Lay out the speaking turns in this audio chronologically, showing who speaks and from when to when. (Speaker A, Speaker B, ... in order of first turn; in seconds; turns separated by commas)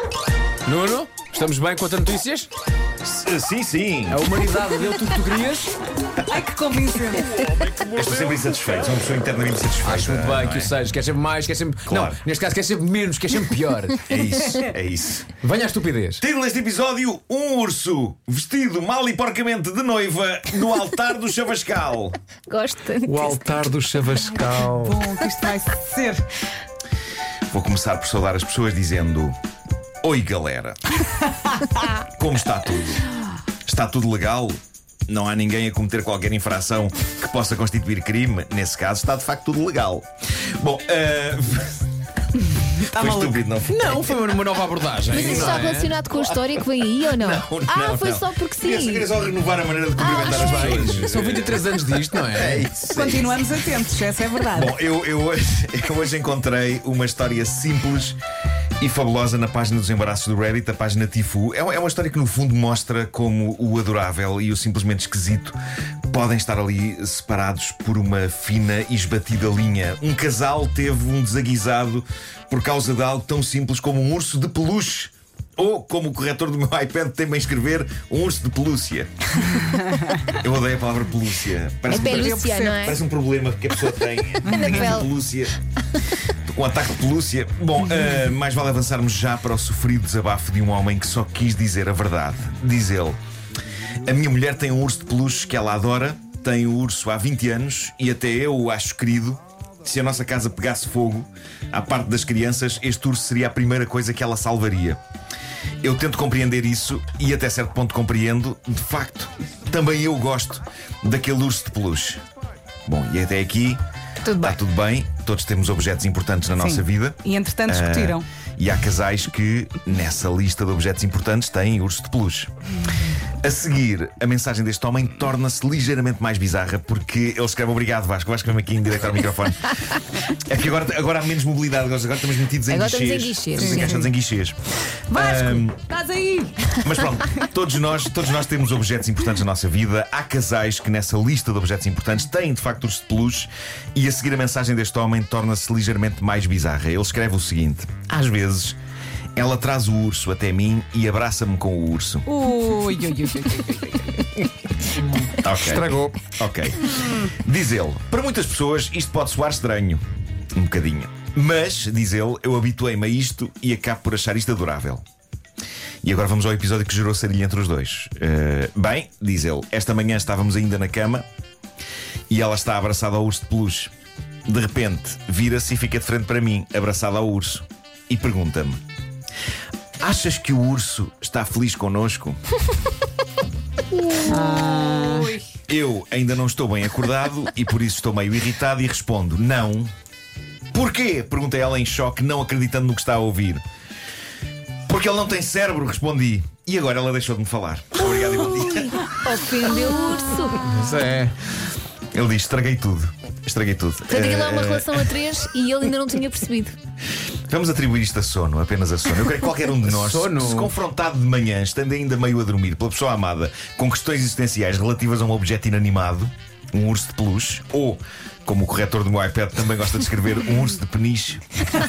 Speaker A: 0.7-2.5, Speaker B: 3.0-4.2, Speaker A: 4.1-5.8, Speaker C: 6.2-7.4, Speaker B: 7.9-10.7, Speaker A: 9.8-14.0, Speaker B: 11.9-12.2, Speaker B: 14.1-15.3, Speaker A: 15.4-16.2, Speaker B: 16.2-22.2, Speaker D: 22.5-23.4, Speaker E: 23.0-24.9, Speaker C: 24.5-26.2, Speaker B: 27.5-29.3, Speaker B: 30.0-30.8, Speaker B: 32.0-33.0, Speaker B: 33.6-41.9, Speaker C: 42.5-43.4, Speaker B: 42.8-44.2, Speaker A: 43.7-45.9, Speaker B: 45.0-53.4, Speaker D: 45.1-49.1, Speaker D: 50.0-50.9, Speaker A: 50.2-52.7, Speaker C: 52.9-54.7, Speaker B: 54.5-58.2, Speaker B: 58.8-65.6, Speaker B: 66.1-79.1, Speaker B: 80.3-85.5, Speaker C: 81.9-82.9, Speaker D: 81.9-83.0, Speaker C: 84.4-84.9, Speaker D: 84.5-85.1, Speaker B: 86.5-93.2, Speaker B: 94.0-105.0, Speaker B: 105.8-112.2, Speaker B: 112.9-113.8, Speaker D: 114.2-114.6, Speaker B: 114.4-122.5, Speaker C: 116.6-118.2, Speaker B: 123.4-134.6, Speaker D: 132.7-134.1, Speaker C: 133.6-134.1, Speaker B: 135.1-135.8, Speaker C: 135.1-136.7, Speaker B: 136.8-148.8, Speaker B: 149.3-152.3, Speaker C: 152.2-154.2, Speaker E: 155.0-156.2, Speaker B: 155.4-160.0, Speaker B: 160.5-165.0, Speaker B: 166.0-171.2, Speaker B: 172.3-173.9, Speaker B: 174.5-178.8, Speaker B: 180.0-182.4, Speaker C: 183.9-185.4, Speaker A: 184.6-185.3, Speaker B: 185.7-189.9, Speaker B: 190.7-193.6, Speaker B: 194.9-199.1, Speaker D: 198.9-200.9, Speaker A: 200.7-201.3, Speaker B: 202.1-205.1, Speaker D: 204.1-206.8, Speaker B: 207.5-221.4, Speaker A: 209.9-210.6